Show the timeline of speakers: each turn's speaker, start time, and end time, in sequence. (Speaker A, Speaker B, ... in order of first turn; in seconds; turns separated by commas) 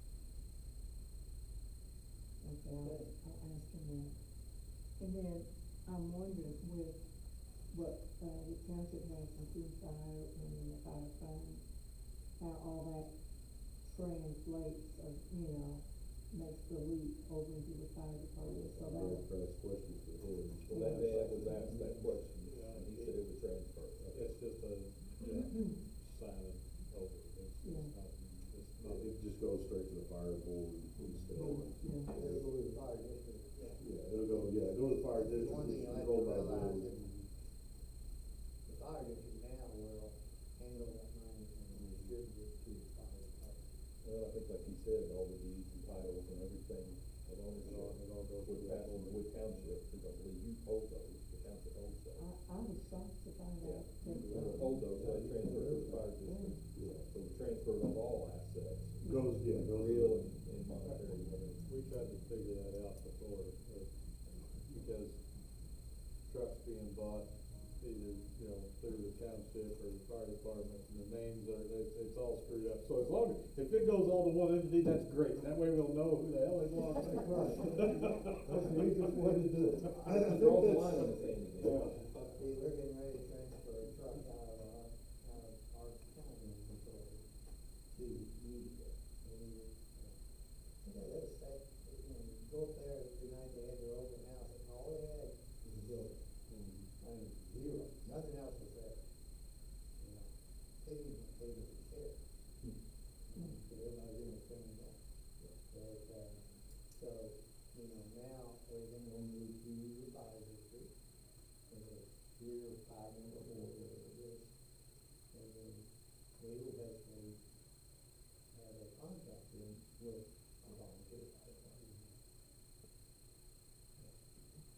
Speaker A: 2.4-4.2, Speaker B: 2.8-3.1, Speaker A: 5.0-19.3, Speaker C: 18.4-21.4, Speaker A: 20.7-21.0, Speaker D: 20.7-24.3, Speaker E: 20.7-23.2, Speaker E: 24.1-29.1, Speaker A: 27.6-27.9, Speaker C: 28.8-31.8, Speaker A: 31.3-32.2, Speaker B: 32.0-37.3, Speaker C: 33.8-36.9, Speaker B: 38.6-43.8, Speaker D: 44.0-52.3, Speaker E: 47.6-49.7, Speaker A: 52.1-54.8, Speaker D: 53.6-61.6, Speaker B: 54.2-56.0, Speaker A: 56.1-56.6, Speaker C: 56.7-57.0, Speaker A: 59.0-59.4, Speaker C: 59.0-60.4, Speaker E: 61.6-63.9, Speaker E: 64.6-65.2, Speaker E: 66.2-80.4, Speaker B: 77.3-77.8, Speaker B: 78.8-87.2, Speaker D: 80.0-81.9, Speaker E: 81.6-82.1, Speaker B: 87.9-90.2, Speaker B: 90.8-96.2, Speaker E: 96.5-96.9, Speaker B: 97.0-99.0, Speaker B: 100.0-102.2, Speaker B: 103.3-110.9, Speaker A: 103.3-103.6, Speaker B: 111.7-114.5, Speaker B: 115.3-117.4, Speaker B: 118.5-122.1